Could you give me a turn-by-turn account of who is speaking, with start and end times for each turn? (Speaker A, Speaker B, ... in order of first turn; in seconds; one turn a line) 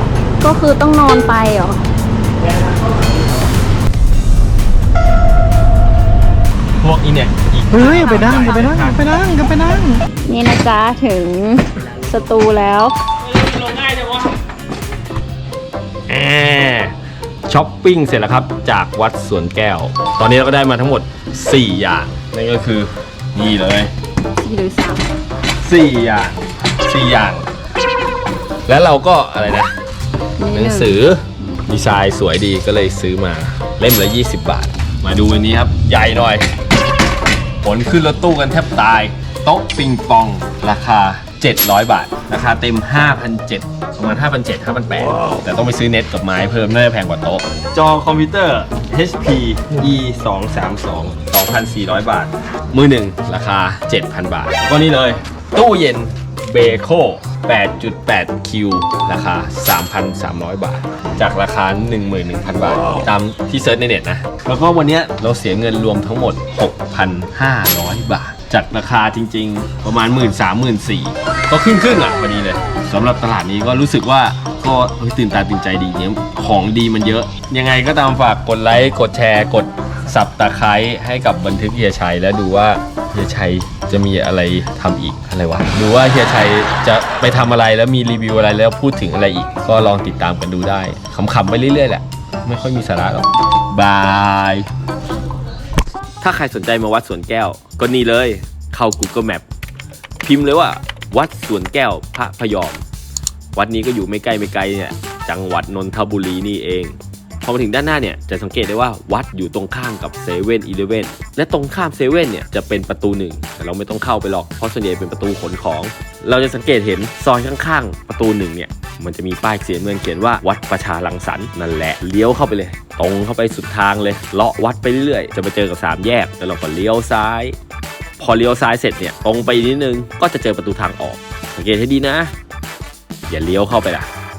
Speaker A: 0.4-1.8
Speaker B: 6.8-9.0
Speaker C: 7.7-10.0
Speaker A: 10.3-13.0
Speaker B: 13.3-14.3
Speaker B: 16.1-16.9
Speaker B: 17.5-23.9
Speaker A: 24.4-25.1
Speaker B: 25.6-27.5
Speaker B: 28.7-29.7
Speaker A: 30.4-31.6
Speaker B: 30.5-36.5
Speaker B: 37.6-94.7
Speaker B: 96.2-99.5
Speaker B: 100.2-102.8
Speaker B: 103.5-127.6
Speaker B: 128.2-132.3
Speaker B: 133.3-134.1